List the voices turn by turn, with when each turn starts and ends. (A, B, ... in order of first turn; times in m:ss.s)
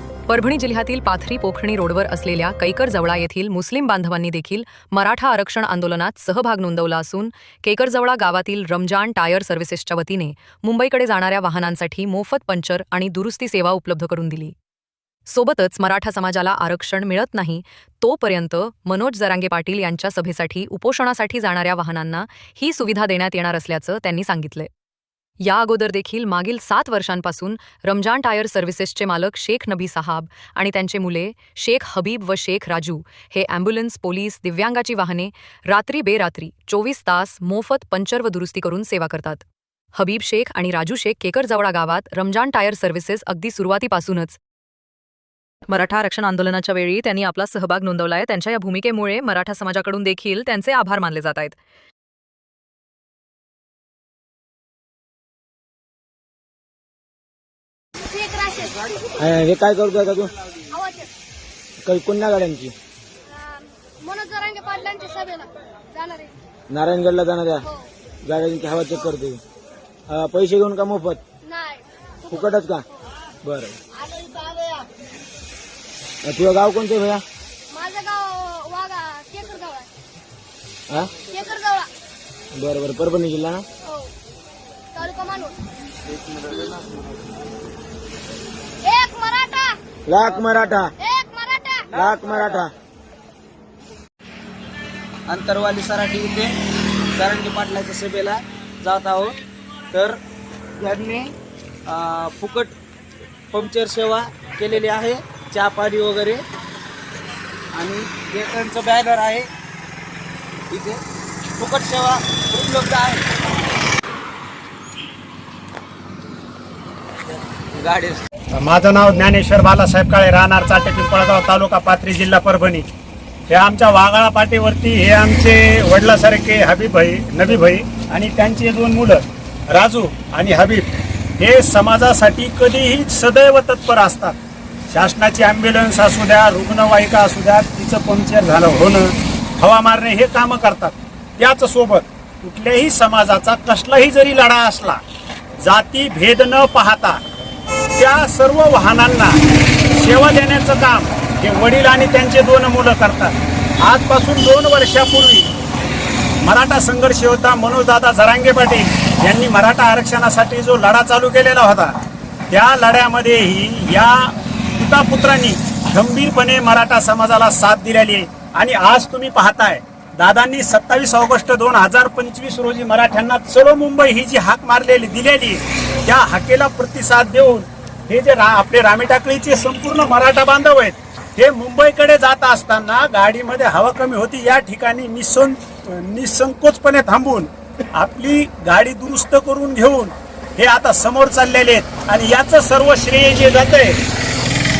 0:00.3-0:14.6 A
0:15.3-0:24.7 A
0:25.4-0:39.4 A
0:40.0-0:44.4 A
0:45.7-0:51.6 A
0:58.1-0:58.9 B
0:59.2-1:00.3 C
1:00.7-1:01.1 B
1:01.8-1:02.7 C
1:03.3-1:06.3 B
1:06.7-1:07.7 C
1:08.2-1:09.4 C
1:10.1-1:11.2 C
1:11.4-1:12.4 B
1:12.3-1:12.9 C
1:13.4-1:13.8 C
1:16.2-1:17.2 C
1:17.7-1:19.9 B
1:20.9-1:21.1 C
1:21.3-1:21.9 B
1:22.6-1:23.6 C
1:25.0-1:25.6 B
1:28.8-1:29.8 B
1:30.1-1:30.9 C
1:31.0-1:32.0 B
1:31.9-1:32.7 C
1:35.3-1:36.6 D
1:37.2-1:39.4 D
1:39.9-1:40.2 D
1:40.8-1:41.3 D
1:41.9-1:42.7 D
1:43.5-1:46.4 D
1:47.7-1:49.5 D
1:50.7-1:51.0 D
1:51.5-1:53.2 D
1:57.8-1:58.2 D
1:58.5-2:02.8 E
2:03.5-2:10.8 E
2:11.4-2:14.3 E
2:14.9-2:25.0 E
2:25.6-2:27.2 E
2:28.0-2:29.4 E
2:29.9-2:35.5 E
2:36.4-2:41.9 E
2:42.5-3:14.0 E